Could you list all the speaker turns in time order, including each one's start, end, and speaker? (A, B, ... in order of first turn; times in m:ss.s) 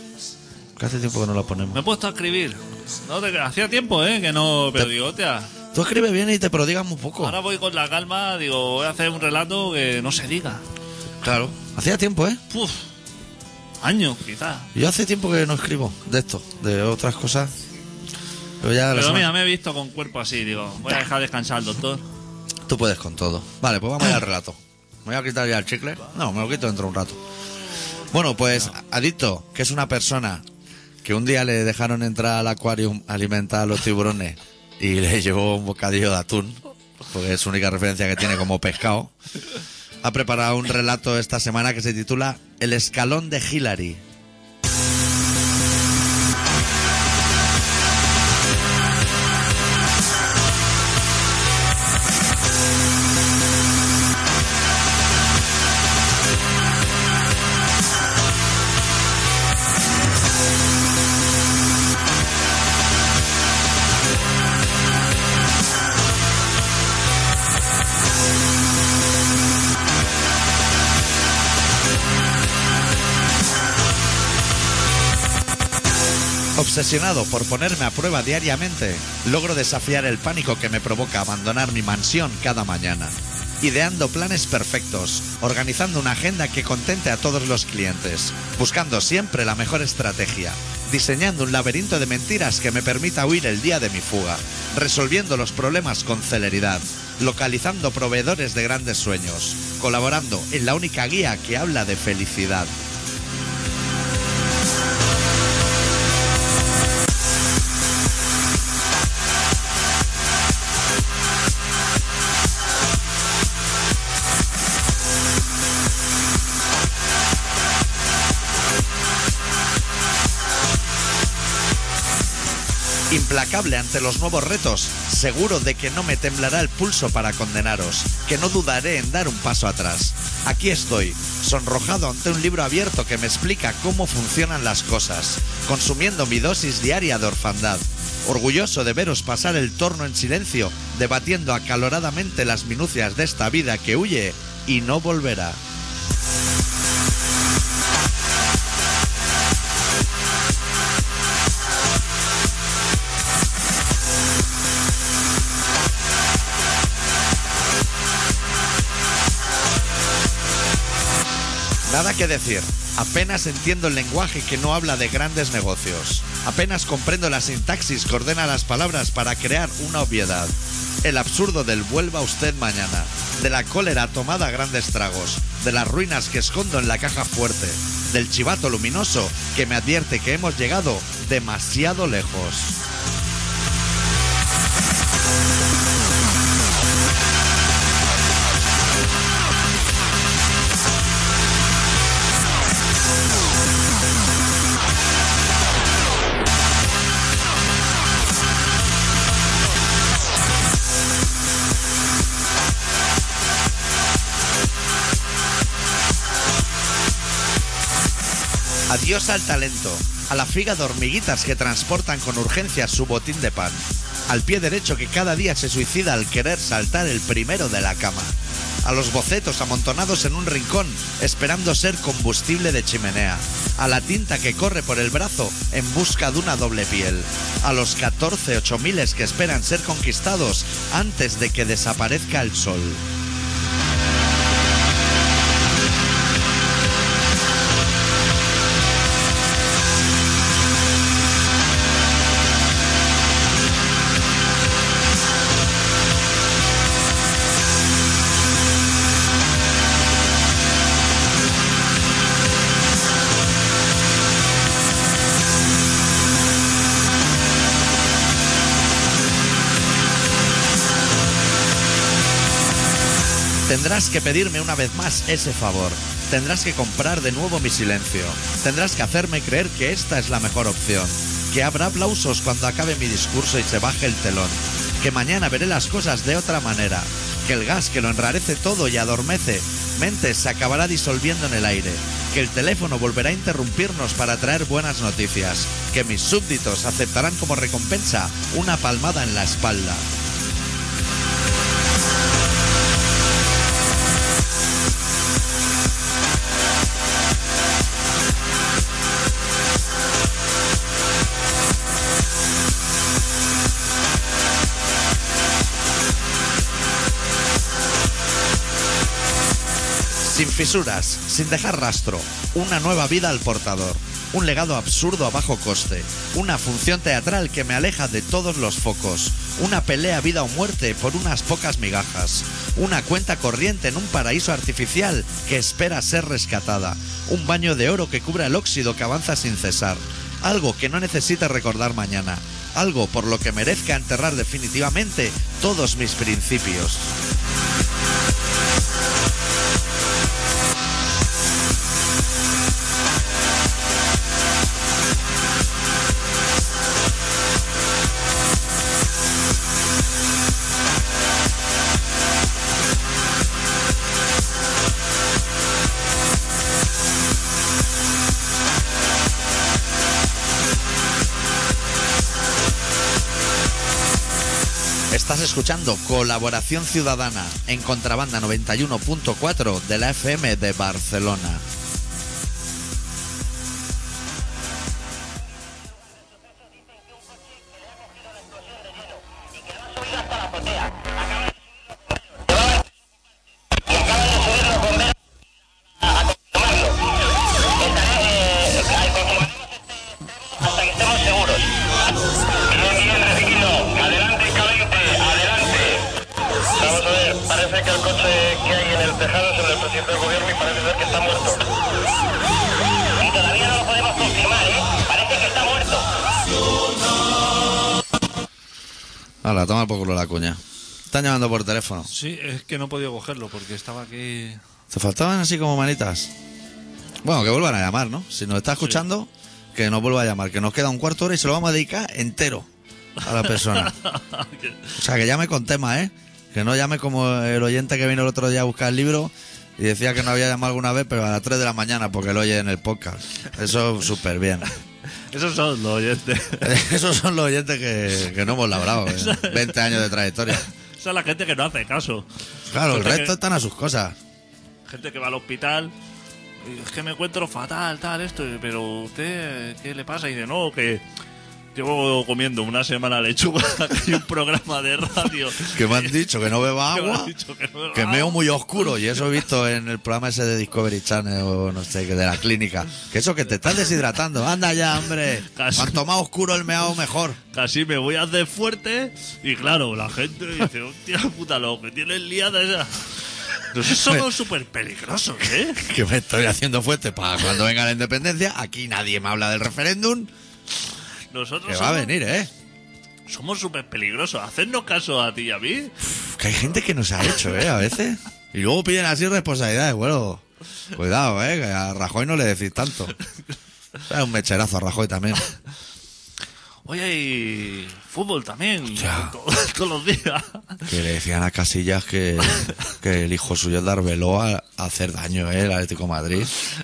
0:00.8-0:01.8 A
0:01.7-0:05.5 B
0:05.7-0:07.4 A
0:07.2-0:10.6 B
0:11.2-0:12.4 A
0:12.5-0:12.8 B
0:13.8-0:14.7 B
0:14.7-0:17.5 A
0:18.6-0:19.3 A
0:18.9-0:22.0 B
0:22.7-0:27.2 A
0:28.1-0:30.4 A
0:31.0-0:39.1 A
0:40.0-0:44.0 A
1:16.5-1:42.7 A
2:03.1-2:25.6 A
2:41.8-3:02.8 A
3:28.9-3:53.0 A
4:23.6-4:50.0 A
5:10.2-5:37.1 A
6:05.1-6:11.6 A
6:16.0-6:22.9 C
6:23.8-6:25.1 C
6:26.0-6:27.1 C
6:27.7-6:31.8 C
6:32.6-6:36.1 C
6:36.7-6:41.7 C
6:43.2-6:46.1 C
6:49.4-6:52.1 A
6:52.1-6:54.6 B
6:54.9-6:56.3 A
6:57.2-7:02.7 A
7:03.2-7:03.9 A
7:03.4-7:04.9 B
7:05.0-7:14.7 A
7:15.3-7:16.8 B
7:16.6-7:20.6 A
7:19.0-7:19.9 B
7:20.5-7:22.3 B
7:22.7-7:24.2 A
7:22.8-7:23.3 B
7:24.8-7:25.9 B
7:26.6-7:31.0 B
7:31.7-7:36.2 B
7:35.6-7:37.3 A
7:36.9-7:38.4 B
7:37.9-7:47.4 A
7:45.5-7:46.0 B
7:47.5-7:55.8 B
7:53.8-7:54.3 A
7:55.6-8:00.3 A
8:01.3-8:02.1 B
8:01.6-8:02.5 A
8:03.3-8:06.0 B
8:06.0-8:13.1 A
8:14.0-8:15.4 A
8:16.8-8:20.9 B
8:19.0-8:19.3 A
8:20.8-8:26.6 A